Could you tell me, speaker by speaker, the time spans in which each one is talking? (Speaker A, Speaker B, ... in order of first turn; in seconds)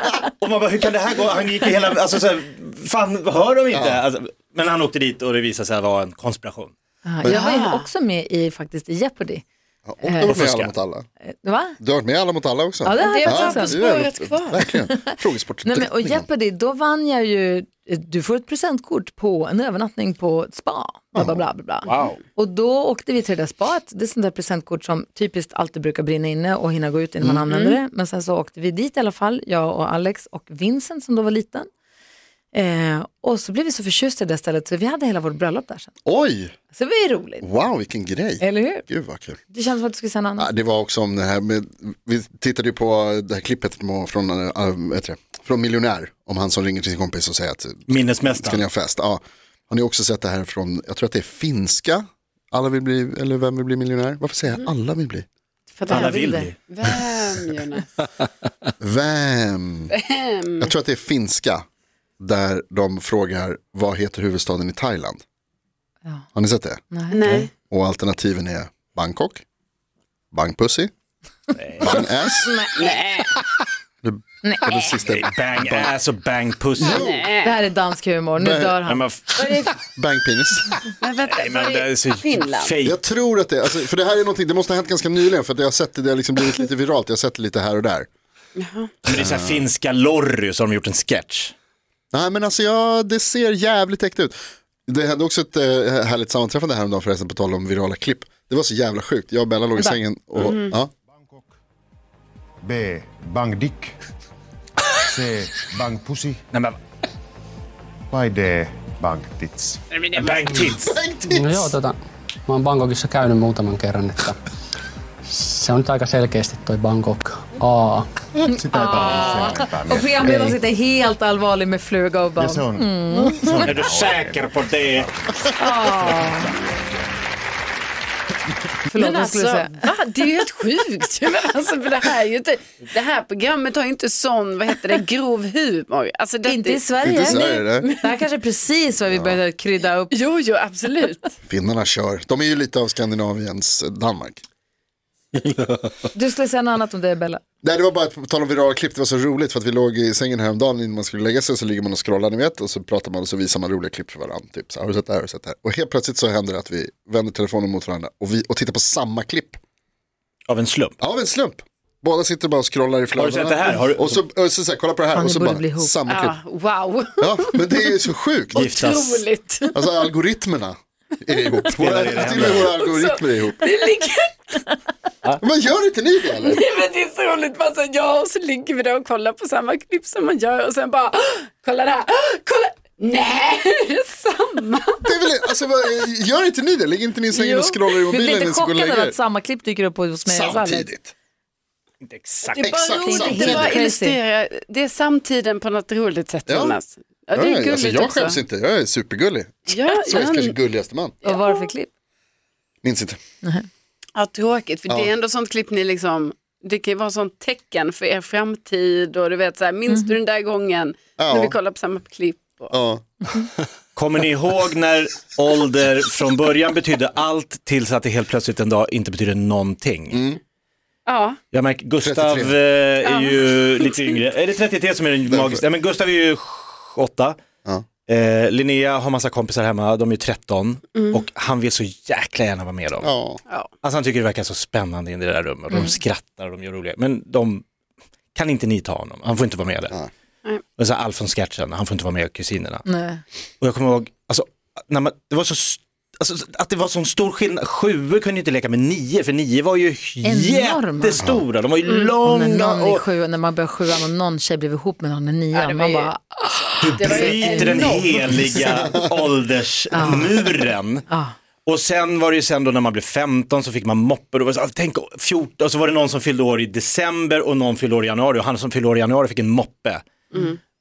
Speaker A: 0.4-6.7, 10.2-10.7, 21.8-22.2, 47.9-48.6, 55.9-56.5, 71.6-72.0, 75.0-77.1, 78.9-79.4, 81.3-83.0, 89.0-91.5, 106.5-106.8, 110.2-110.9, 123.6-125.1, 160.5-161.0, 163.1-164.2, 168.5-169.2, 171.8-172.8, 192.0-192.7, 213.9-220.2, 221.5-227.4, 228.1-233.1, 233.8-237.6, 238.3-239.9, 240.8-242.8, 243.6-253.0, 256.8-261.0, 261.6-270.0
Speaker B: 3.7-4.0, 7.2-7.5, 9.9-11.1, 11.8-16.3, 21.1-21.4, 36.0-36.5, 37.4-39.4, 40.4-55.2, 58.8-60.0, 60.6-61.6, 62.2-65.2, 66.3-69.4, 70.3-70.9, 71.8-72.5, 74.0-75.9, 76.8-77.3, 78.4-78.8, 79.8-80.8, 82.8-88.1, 89.0-89.7, 92.1-100.9, 110.7-111.7, 137.0-137.9, 139.1-139.4, 141.5-144.4, 147.6-159.6, 161.0-166.3, 167.2-168.7, 169.7-173.6, 175.4-176.6, 185.0-189.2, 190.2-191.1, 192.6-193.8, 196.5-196.8, 197.3-201.1, 202.8-203.2, 211.2-211.6, 212.7-213.2, 220.1-220.4, 222.0-222.6, 225.3-225.6, 233.0-233.4, 251.2-251.4, 258.4-259.0
Speaker C: 7.0-9.4, 10.0-10.3, 11.4-11.8, 12.8-13.8, 14.7-15.1, 15.6-31.7, 32.5-35.9, 36.7-37.4, 38.4-38.9, 39.5-40.5, 55.8-56.5, 66.9-67.3, 72.4-72.8, 74.4-74.9, 77.4-79.7, 118.4-123.7, 125.5-126.5, 128.8-129.8, 136.4-140.1, 146.1-147.4, 165.1-166.0, 187.3-190.9, 192.9-194.2, 201.2-201.9, 242.8-243.2, 250.2-251.2, 252.2-257.9, 259.9-260.5, 261.1-261.4
Speaker D: 7.3-7.9, 13.0-14.6, 27.4-27.8, 55.9-58.0, 59.9-60.7, 67.1-67.5, 72.8-73.3, 76.8-77.5, 81.0-82.7, 88.5-88.9, 100.4-100.8, 109.9-110.5, 128.9-138.1, 140.1-141.3, 166.1-167.7, 168.5-169.8, 172.2-174.6, 176.3-185.1, 192.5-198.4, 199.7-200.5, 201.2-201.7, 204.1-212.7, 221.1-221.4, 223.0-224.2, 251.8-252.1, 255.5-258.6, 270.3-270.6
Speaker E: 101.1-101.5, 102.6-103.9, 105.1-106.4, 108.1-109.8, 118.5-120.5, 122.4-126.6
Speaker F: 111.3-111.9, 112.5-114.3, 115.4-118.0